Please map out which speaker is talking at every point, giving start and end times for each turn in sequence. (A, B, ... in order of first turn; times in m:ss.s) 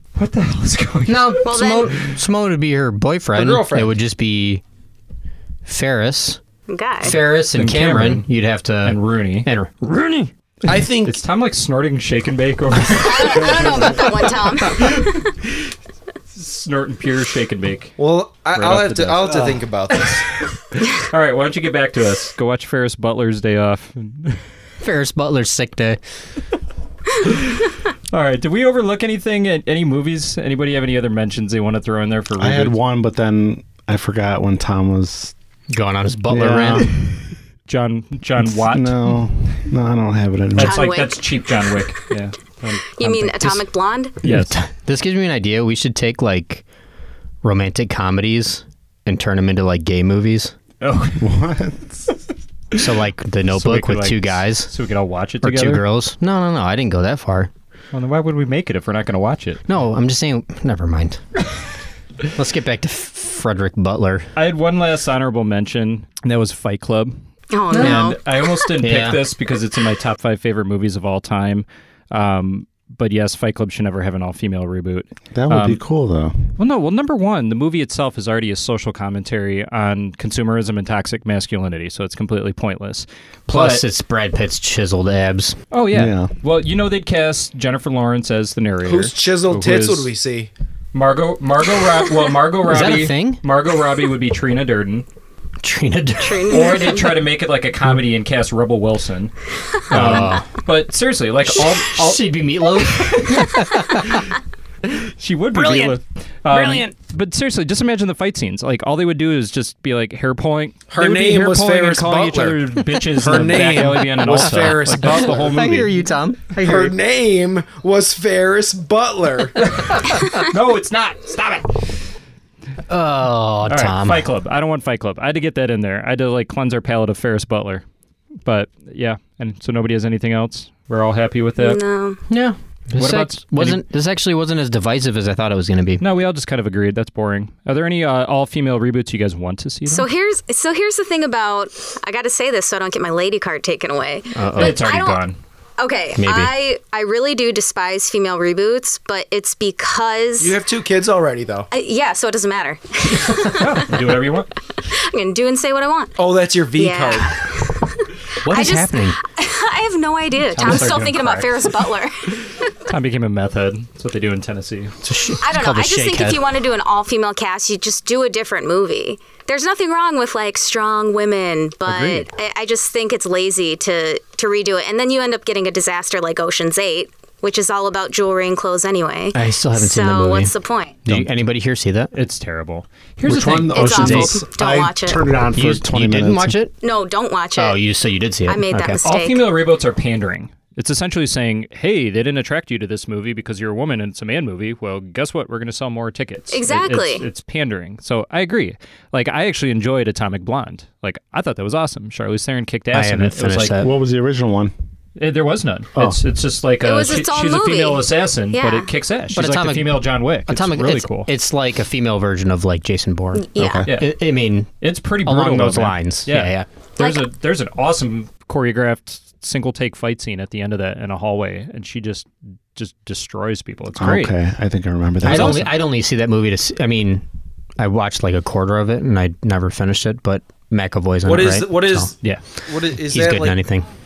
0:00.2-0:01.4 A
0:01.1-0:04.6 B
0:01.4-0:02.0 C
0:03.3-0:03.9 D
0:05.6-0:06.4 B
0:06.7-0:07.2 C
0:07.0-0:10.3 B
0:07.0-0:08.3 A
0:08.8-0:09.5 A
0:10.6-0:11.2 D
0:10.9-0:15.7 A
0:12.9-0:15.3 C
0:16.3-0:18.0 A
0:18.0-0:20.2 D
0:18.5-0:24.4 A
0:24.8-0:26.0 B
0:27.2-0:27.6 A
0:28.1-0:32.8 A
0:32.4-0:35.3 E
0:35.7-0:37.0 B
0:36.3-0:37.0 E
0:37.7-0:39.2 A
0:38.4-0:40.9 E
0:40.6-0:42.9 A
0:40.6-0:41.4 C
0:42.9-0:44.2 C
0:43.0-0:43.7 B
0:44.2-0:44.5 A
0:44.2-0:46.6 B
0:47.4-0:50.5 B
0:50.8-0:51.3 A
0:51.2-0:52.2 E
0:52.7-0:54.7 B
0:53.5-0:55.8 A
0:55.4-0:57.5 B
0:57.9-0:59.6 A
0:59.7-1:01.2 B
1:02.3-1:04.3 B
1:04.4-1:07.2 A
1:07.5-1:08.2 C
1:07.7-1:08.1 B
1:07.7-1:15.8 A
1:08.8-1:09.2 B
1:15.3-1:16.3 E
1:16.6-1:23.8 A
1:23.5-1:25.6 B
1:25.7-1:30.1 A
1:25.9-1:26.3 E
1:28.8-1:30.5 D
1:30.9-1:35.0 A
1:32.6-1:33.4 B
1:35.6-1:36.8 B
1:36.2-1:37.2 C
1:36.5-1:39.3 A
1:39.9-1:44.2 A
1:39.9-1:40.5 B
1:41.4-1:44.2 B
1:45.2-1:56.0 A
1:45.6-1:45.9 B
1:46.5-1:46.8 B
1:50.9-1:55.7 D
1:54.2-1:56.9 B
1:56.5-1:59.6 D
1:59.8-2:02.0 A
2:02.9-2:04.2 B
2:03.6-2:07.8 A
2:08.4-2:11.8 A
2:11.6-2:12.2 C
2:12.3-2:16.0 B
2:13.0-2:13.8 A
2:16.0-2:20.0 A
2:19.9-2:30.6 C
2:24.3-2:25.0 B
2:24.6-2:25.4 A
2:26.2-2:26.5 B
2:30.4-2:31.7 D
2:31.7-2:34.0 C
2:33.4-2:34.5 A
2:34.9-2:36.1 C
2:36.2-2:37.3 D
2:36.8-2:42.6 C
2:38.4-2:39.2 B
2:40.5-2:41.6 A
2:40.6-2:41.2 B
2:42.9-2:44.9 A
2:45.0-2:46.4 B
2:45.4-3:01.0 C
2:51.8-2:52.3 A
2:59.3-3:00.5 B
3:01.0-3:02.1 B
3:02.1-3:04.1 A
3:03.2-3:06.6 E
3:03.7-3:05.3 C
3:04.0-3:04.3 B
3:05.5-3:06.7 B
3:06.8-3:07.8 C
3:07.6-3:09.0 B
3:08.4-3:09.5 C
3:09.0-3:23.8 A
3:16.5-3:17.2 C
3:22.9-3:23.9 B
3:23.7-3:24.7 E
3:25.2-3:31.3 A
3:26.8-3:28.9 C
3:29.3-3:34.7 B
3:33.4-3:33.9 C
3:33.6-3:33.9 E
3:33.9-3:34.2 A
3:34.8-3:44.4 A
3:35.2-3:36.7 B
3:37.0-3:37.3 C
3:44.0-3:45.7 E
3:45.2-3:45.7 A
3:45.2-3:47.2 B
3:47.8-3:52.2 B
3:51.2-3:53.6 D
3:52.9-3:53.9 B